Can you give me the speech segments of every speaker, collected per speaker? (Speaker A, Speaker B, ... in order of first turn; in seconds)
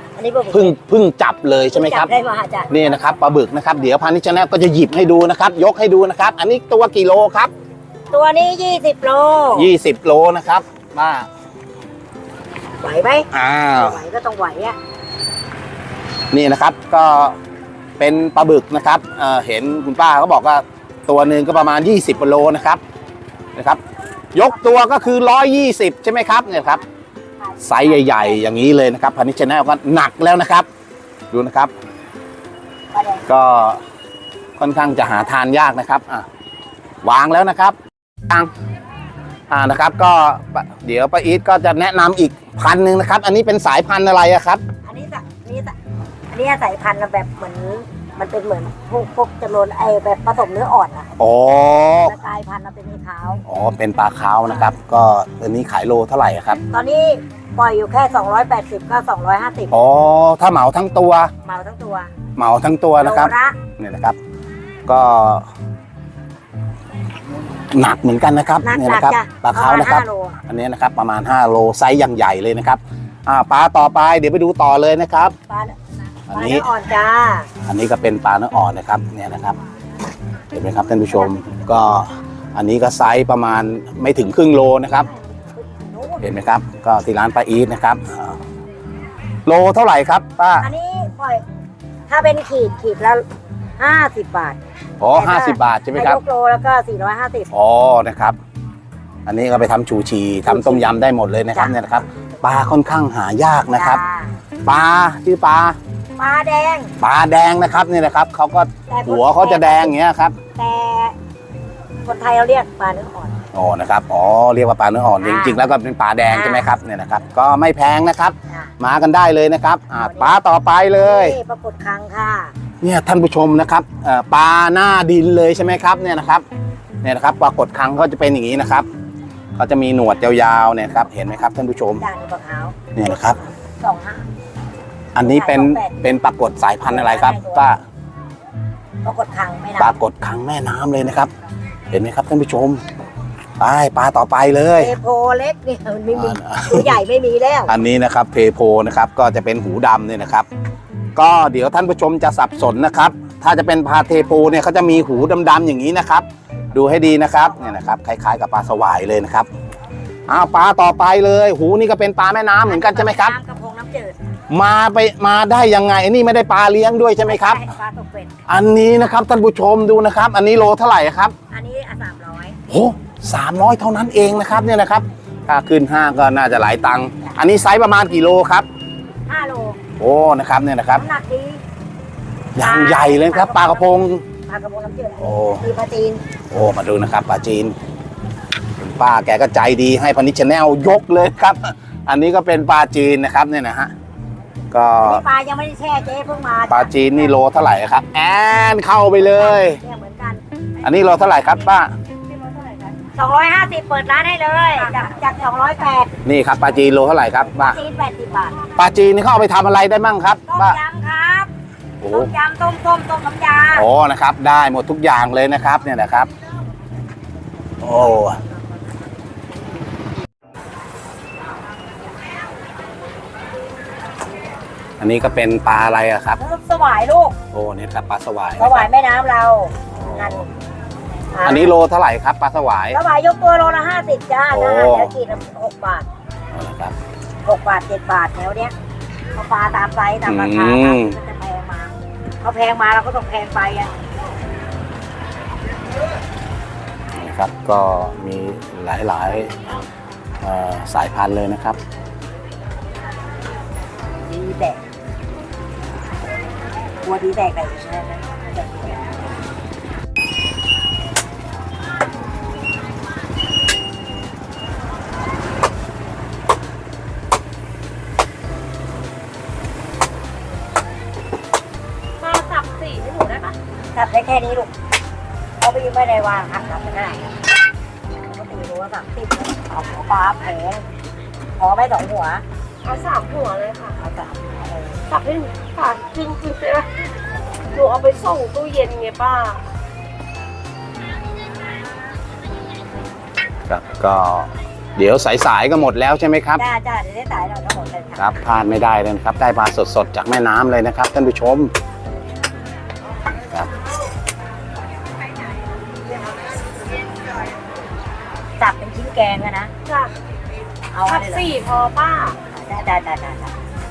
Speaker A: 0.2-0.8, 1.7-2.7, 8.1-9.7, 12.8-14.8, 27.4-28.4, 32.9-33.3, 44.9-45.7, 46.3-51.1, 52.0-53.4, 56.7-59.9, 61.4-62.1, 63.0-63.6, 68.6-70.4, 75.5-75.8, 76.3-77.5, 85.5-86.3, 90.6-91.4, 92.1-93.3, 93.8-94.6, 95.2-97.5, 100.5-100.9, 103.7-104.3, 106.2-106.9, 108.9-110.0, 110.5-111.2, 112.0-113.4, 115.2-115.6, 116.3-116.7, 120.0-120.4, 121.0-122.5, 132.0-132.8, 133.8-134.3, 135.2-136.1, 136.9-137.7, 139.0-140.0, 144.8-147.7, 162.7-164.2, 167.2-168.4, 171.5-172.6, 179.3-179.8, 180.9-181.6, 182.6-186.2, 195.0-197.3, 199.2-200.4, 203.1-206.1, 207.5-208.6, 210.5-211.5, 212.1-213.9, 226.4-227.4, 228.6-230.5, 231.3-231.7, 232.9-236.1, 237.4-238.7, 239.3-244.0, 254.3-254.8, 257.0-259.1, 273.9-274.7, 275.6-277.4, 278.3-280.9, 281.6-282.4, 284.0-285.0, 296.6-298.3, 308.6-309.7, 310.9-311.5, 312.5-313.6
Speaker B: 0.5-2.1, 2.7-7.5, 9.5-11.3, 13.3-14.0, 16.3-17.4, 18.0-22.8, 24.3-26.8, 27.6-30.7, 31.3-31.7, 33.3-33.8, 34.6-36.3, 37.0-37.8, 39.5-44.6, 51.2-52.1, 53.5-56.6, 59.7-61.3, 62.4-64.2, 64.9-65.5, 67.7-75.3, 76.3-76.7, 77.7-79.6, 80.5-85.1, 86.2-88.4, 89.5-90.7, 95.0-96.2, 97.5-98.4, 99.3-104.0, 104.7-105.8, 107.0-110.4, 113.5-121.4, 122.8-126.5, 127.0-128.9, 129.6-132.1, 132.9-133.4, 135.2-137.8, 139.8-141.3, 141.9-142.8, 143.6-144.9, 146.1-147.0, 147.7-150.5, 151.2-159.5, 160.3-163.3, 164.5-167.6, 168.5-171.3, 172.7-178.7, 180.0-181.0, 182.6-184.2, 185.2-185.6, 186.5-187.8, 188.8-193.9, 194.7-195.2, 196.7-199.8, 200.8-201.9, 206.2-207.8, 208.8-210.8, 212.0-212.3, 213.8-216.3, 217.8-218.4, 225.0-226.4, 227.5-228.9, 230.0-230.4, 231.4-233.0, 234.5-235.1, 236.5-236.9, 240.3-241.2, 247.2-249.5, 250.4-251.8, 293.7-296.6, 298.2-301.7
Speaker C: 272.2-273.6, 282.8-284.0, 285.1-286.9, 287.7-289.6, 309.9-310.1, 311.1-312.4